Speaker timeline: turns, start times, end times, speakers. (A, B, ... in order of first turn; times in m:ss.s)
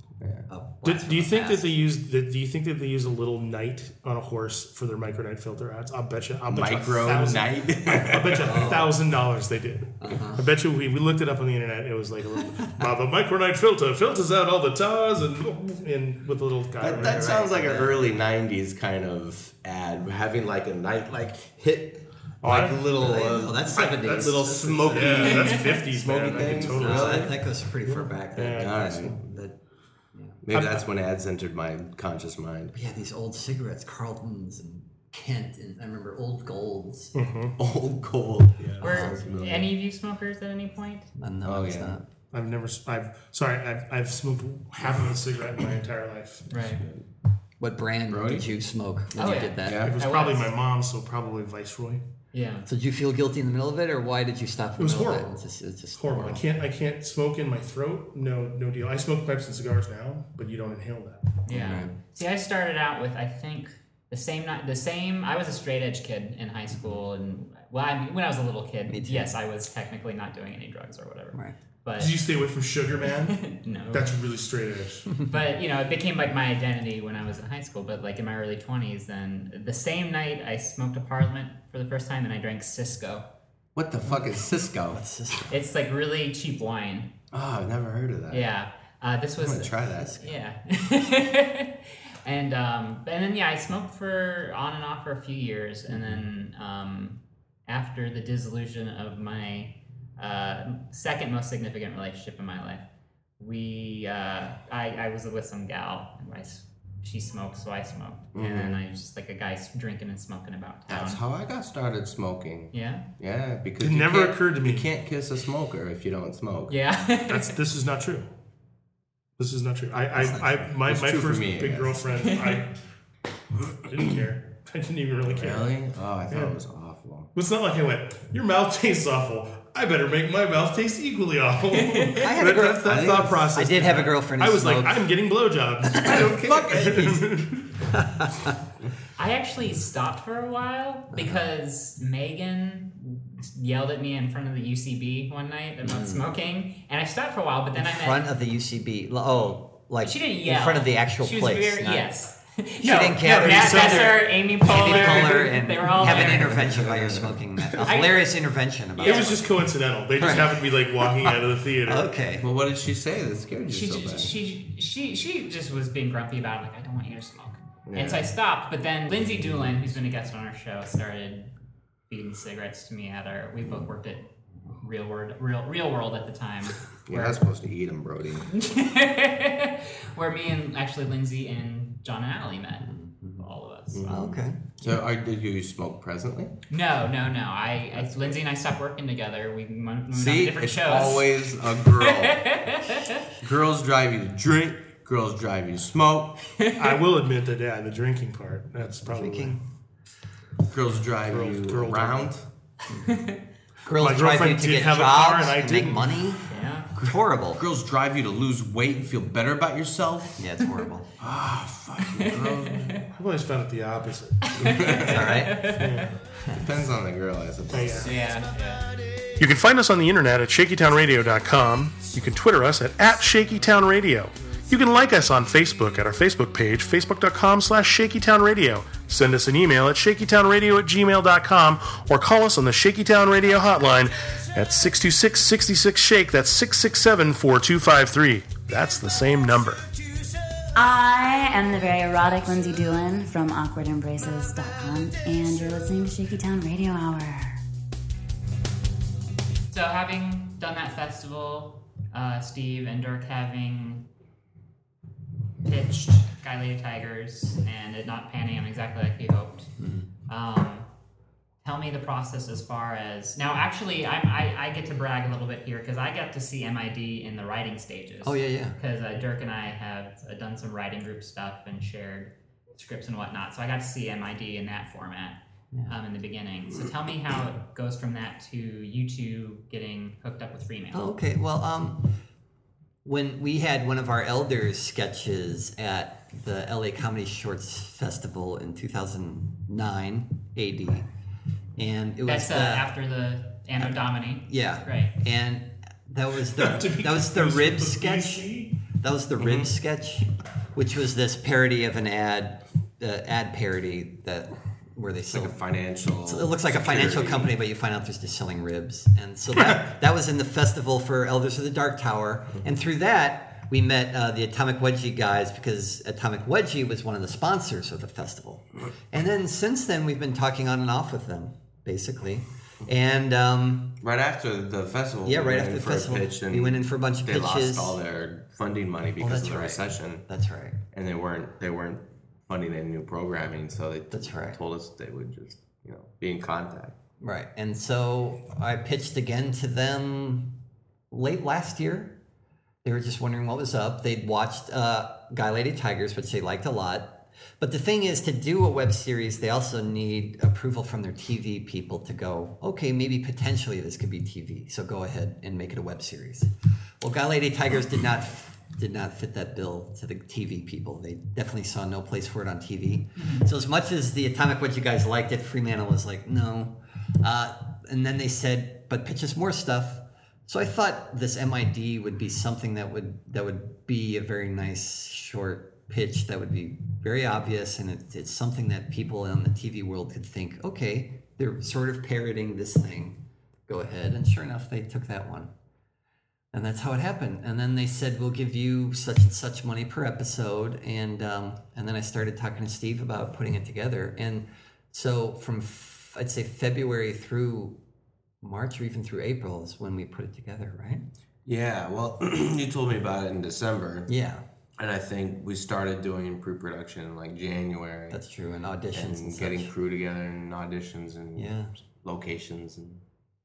0:00.2-0:00.5 A
0:00.5-0:01.7 B
0:00.8-0:17.4 C
0:06.5-0:08.8 A
0:08.4-0:09.0 B
0:10.0-0:10.5 B
0:16.8-0:27.4 A
0:16.9-0:18.0 B
0:22.4-0:22.8 C
0:22.8-0:25.4 B
0:23.7-0:29.1 C
0:26.3-0:29.6 B
0:28.5-0:29.3 A
0:30.4-0:32.8 A
0:30.5-0:30.8 C
0:32.7-0:37.1 B
0:37.1-0:37.6 C
0:37.6-0:39.7 A
0:38.6-0:38.9 C
0:38.8-0:41.1 D
0:38.8-0:39.2 B
0:41.2-0:42.1 B
0:41.4-0:42.0 A
0:42.3-0:46.5 C
0:46.5-0:46.8 D
0:46.5-0:47.0 A
0:47.6-0:49.9 B
0:48.1-0:48.5 A
0:49.1-0:50.5 D
0:49.6-0:50.0 A
0:49.8-0:52.0 C
0:52.3-0:52.7 D
0:52.6-0:56.4 B
0:54.8-0:55.3 C
0:56.0-1:01.3 C
1:01.4-1:12.2 D
1:01.5-1:01.9 B
1:08.9-1:09.3 B
1:12.0-1:13.4 C
1:13.1-1:14.1 D
1:13.9-1:15.1 C
1:15.2-1:23.2 D
1:23.7-1:25.0 A
1:24.9-1:25.5 B
1:25.5-1:27.1 D
1:27.3-1:28.5 A
1:28.3-1:42.8 D
1:29.4-1:30.3 A
1:43.4-1:51.2 D
1:48.3-1:48.8 A
1:50.9-1:56.8 A
1:52.7-1:53.0 D
1:53.8-1:54.9 C
1:56.7-1:57.6 D
1:57.3-1:58.3 C
1:59.4-2:02.8 C
2:00.2-2:00.5 B
2:00.7-2:02.0 A
2:03.6-2:05.7 C
2:05.3-2:07.3 A
2:06.3-2:06.5 C
2:07.3-2:17.7 C
2:12.2-2:15.0 B
2:12.8-2:14.0 A
2:16.0-2:17.5 A
2:17.8-2:18.6 B
2:19.2-2:28.2 D
2:25.8-2:26.2 B
2:27.7-2:32.1 B
2:30.0-2:36.8 D
2:32.8-2:39.4 B
2:33.2-2:35.4 C
2:36.0-2:38.0 A
2:37.8-2:38.4 D
2:38.9-2:39.5 D
2:39.0-2:42.1 C
2:40.2-2:42.5 B
2:42.4-2:44.4 A
2:43.7-2:51.5 D
2:47.8-2:48.3 A
2:52.1-2:54.3 D
2:54.8-2:57.4 D
2:57.1-2:58.5 A
2:58.5-3:04.4 D
3:02.8-3:03.4 B
3:03.9-3:06.5 A
3:04.1-3:04.6 B
3:06.7-3:13.2 D
3:08.0-3:08.3 A
3:10.1-3:12.6 A
3:13.4-3:16.5 A
3:16.8-3:19.6 C
3:19.0-3:19.6 B
3:20.7-3:22.5 A
3:21.3-3:22.3 C
3:22.9-3:23.1 B
3:23.0-3:23.4 D
3:23.8-3:27.6 B
3:24.0-3:26.2 C
3:26.5-3:26.9 D
3:27.0-3:30.5 A
3:30.4-3:31.1 B
3:31.2-3:33.1 A
3:32.0-3:33.0 D
3:33.1-3:34.5 C
3:34.5-3:36.1 D
3:34.6-3:35.5 A
3:34.9-3:35.7 B
3:35.7-3:36.1 C
3:36.5-3:38.3 A
3:37.7-3:38.1 C
3:38.0-3:38.8 D
3:39.4-3:59.8 C
4:00.7-4:07.6 E
4:09.7-4:14.0 D
4:15.6-4:19.7 D
4:19.8-4:20.1 B
4:20.3-4:20.9 D
4:21.6-4:41.1 D
4:28.2-4:28.8 B
4:40.9-4:42.2 B
4:43.0-4:51.1 B
4:51.8-4:52.9 B
4:52.2-4:55.1 D
4:53.8-5:05.5 B
4:56.6-4:58.8 C
4:59.4-4:59.7 A
5:05.3-5:07.6 A
5:06.2-5:24.0 B
5:24.0-5:30.3 A
5:25.2-5:28.0 B
5:29.2-5:30.8 B
5:30.9-5:37.0 A
5:34.1-5:34.6 B
5:37.2-5:40.5 B
5:41.1-5:42.2 B
5:42.8-6:25.5 B
6:03.2-6:03.5 D
6:26.5-6:37.8 B
6:38.4-6:41.0 B
6:41.4-6:44.1 A
6:44.1-6:44.4 B
6:44.8-6:48.2 A
6:48.1-6:49.7 B
6:48.9-6:53.0 A
6:51.4-6:51.7 B